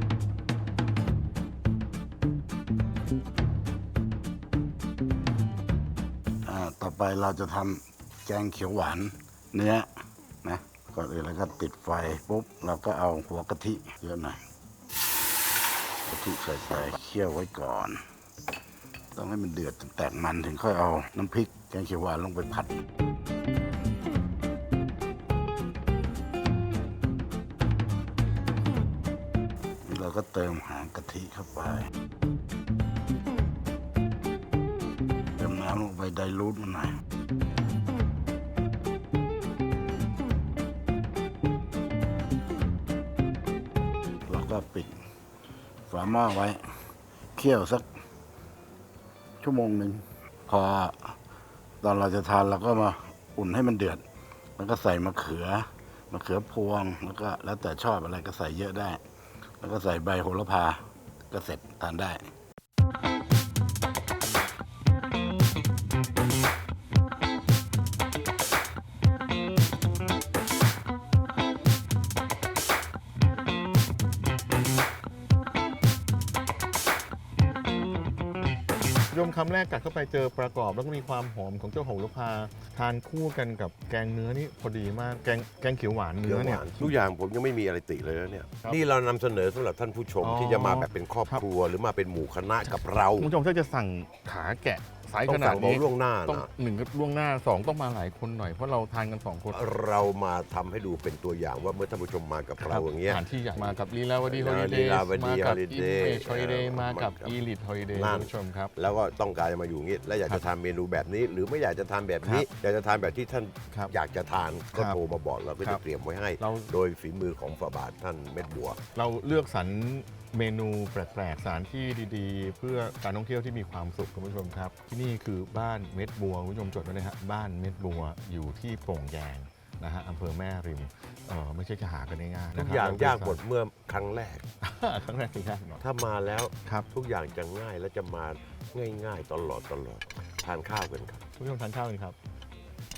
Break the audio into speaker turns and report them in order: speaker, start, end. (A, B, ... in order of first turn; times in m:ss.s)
0:06.4-0:09.9 A
0:10.4-0:14.4 A
0:16.1-0:18.0 A
0:19.1-0:22.8 A
0:29.8-0:31.9 A
0:35.4-0:37.0 A
0:44.3-0:45.0 A
0:45.9-0:46.6 A
0:47.3-0:47.8 A
0:49.4-0:51.1 A
0:51.8-0:54.0 A
0:54.6-0:59.0 A
0:59.6-1:02.2 A
1:19.1-1:26.9 B
1:26.2-1:33.3 C
1:30.2-1:31.4 B
1:33.2-1:39.6 B
1:35.2-1:36.5 C
1:39.5-1:47.4 C
1:42.6-1:48.7 B
1:47.9-1:58.8 C
1:54.7-1:55.0 B
1:56.4-1:56.7 B
1:58.9-2:13.4 B
2:12.5-2:14.4 C
2:14.6-2:15.8 B
2:15.8-2:21.2 C
2:21.4-2:22.2 B